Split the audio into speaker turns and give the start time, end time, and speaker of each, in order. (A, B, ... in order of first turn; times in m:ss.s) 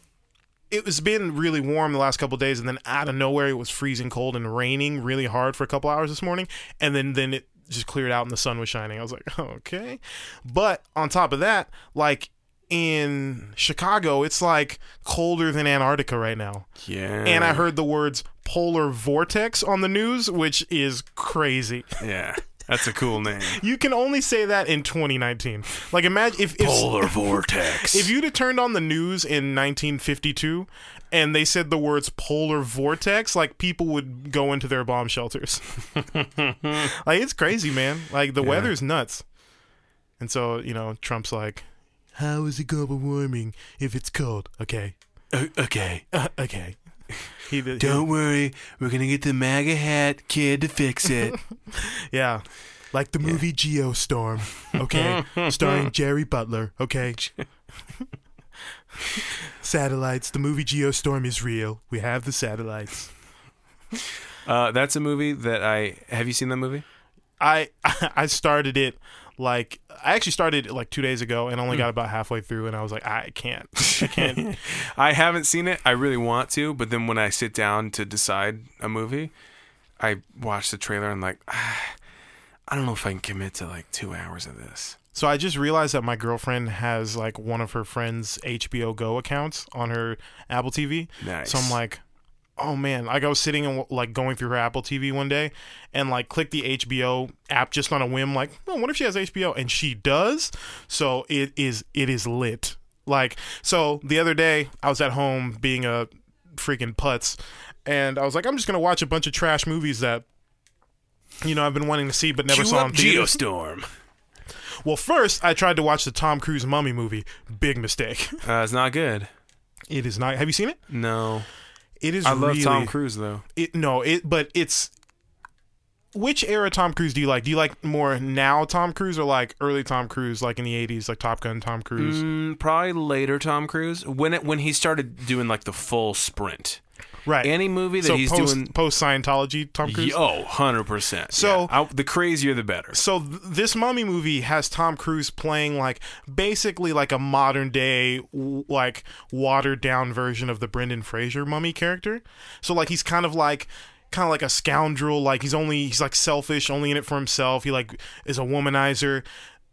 0:00.7-0:16.7 A
0:16.8-0:17.6 B
0:17.2-0:22.0 A
0:22.0-0:23.6 B
0:23.4-0:35.6 A
0:26.6-0:28.1 B
0:36.2-0:36.9 B
0:36.7-0:39.2 A
0:38.4-0:38.7 B
0:40.2-0:41.6 A
0:42.1-0:44.9 A
0:45.3-0:46.0 B
0:46.1-0:46.8 A
0:47.4-0:48.1 A
0:47.8-0:51.4 B
0:51.7-0:57.3 A
0:54.8-0:55.9 B
0:59.1-1:03.1 A
1:04.4-1:06.8 B
1:07.4-1:14.5 A
1:13.8-1:19.3 B
1:20.0-1:22.0 B
1:22.7-1:25.0 B
1:25.1-1:32.0 A
1:31.2-1:31.8 B
1:32.6-1:50.2 A
1:51.4-1:53.4 A
1:52.5-1:53.9 B
1:54.8-1:58.4 A
1:58.4-1:59.3 B
1:59.9-2:00.8 A
2:00.9-2:01.5 B
2:02.0-2:02.9 A
2:02.2-2:03.4 B
2:03.5-2:04.9 A
2:06.1-2:12.2 A
2:12.0-2:16.8 B
2:17.2-2:20.2 A
2:17.4-2:18.7 B
2:19.8-2:23.0 B
2:21.3-2:21.7 A
2:22.9-2:39.2 A